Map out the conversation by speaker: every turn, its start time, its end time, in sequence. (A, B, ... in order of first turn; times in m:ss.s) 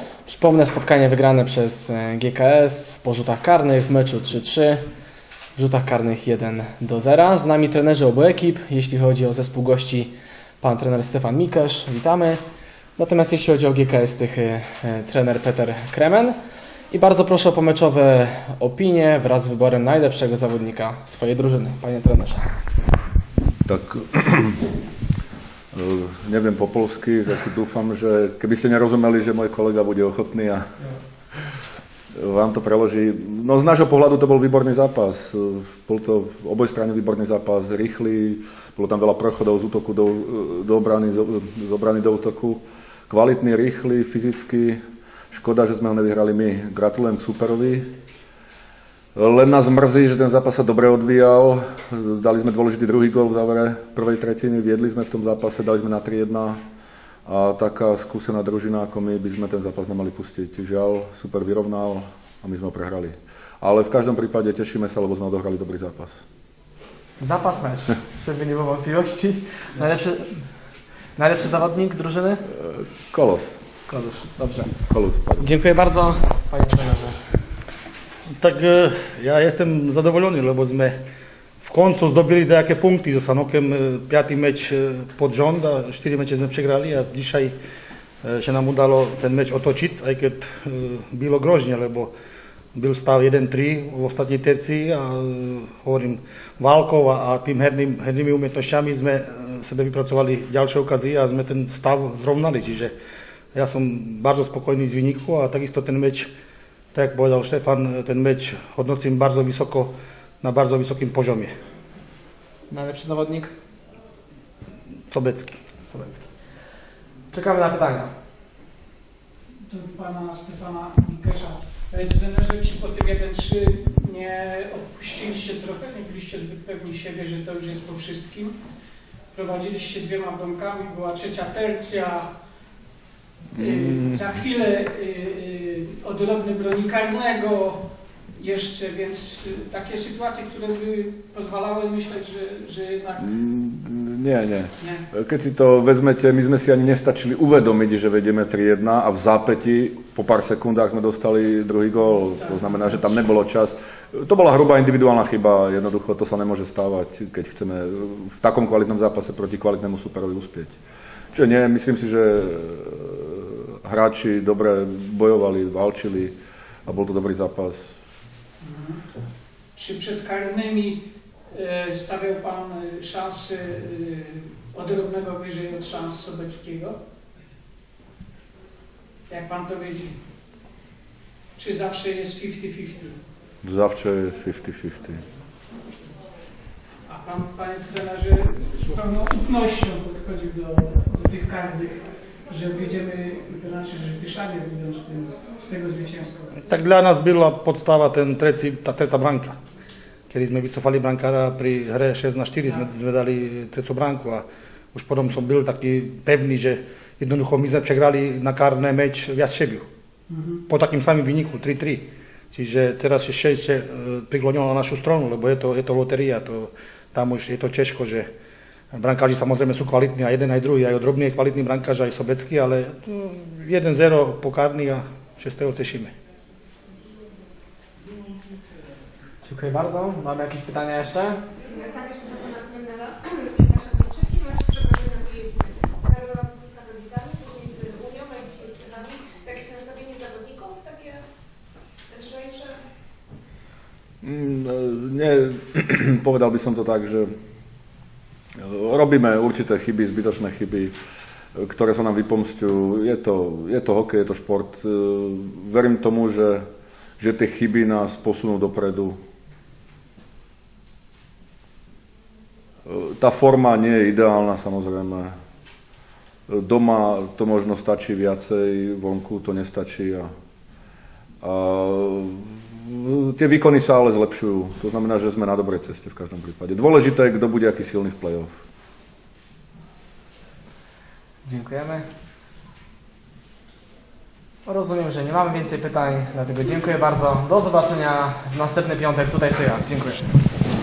0:00.2-0:04.8 A
0:05.6-0:12.4 A
0:13.0-0:16.4 A
0:16.9-0:22.5 A
0:23.6-0:24.6 B
0:25.7-0:31.6 B
0:32.1-0:44.8 B
0:45.3-0:47.9 B
0:49.1-0:56.6 B
0:57.2-1:06.2 B
1:07.2-1:10.4 A
1:11.2-1:12.4 A
1:12.5-1:13.7 B
1:13.9-1:14.8 A
1:14.9-1:15.5 B
1:15.4-1:17.2 A
1:18.3-1:21.0 C
1:21.6-1:27.5 C
1:28.2-1:32.1 C
1:32.7-1:42.9 C
1:43.5-1:46.3 C
1:46.9-1:51.5 C
1:52.7-1:53.5 A
1:55.1-1:55.6 C
1:55.8-1:56.3 A
1:57.3-1:58.1 A
1:59.6-2:08.6 D
2:09.3-2:12.3 D
2:13.5-2:23.3 D
2:13.5-2:14.2 B
2:23.2-2:40.8 B
2:32.3-2:33.0 D
2:41.3-2:46.3 B
2:46.8-2:47.9 B
2:48.6-2:49.0 D
2:49.7-2:57.0 D
2:59.3-3:00.2 D
3:01.6-3:03.2 D
3:03.6-3:05.2 B
3:07.1-3:16.6 D
3:16.6-3:19.6 C
3:20.3-3:29.8 C
3:30.3-3:30.6 D
3:30.7-3:38.3 C
3:38.9-3:46.1 C
3:49.4-3:51.4 A
3:52.0-3:53.2 E
3:53.7-4:01.2 E
4:02.1-4:02.7 E
4:04.2-4:07.3 B
4:08.6-4:10.9 B
4:11.5-4:16.6 B
4:17.2-4:19.2 B
4:22.8-4:25.3 B
4:26.5-4:30.3 B
4:31.4-4:38.5 B
4:41.4-4:42.0 A
4:44.6-4:50.4 A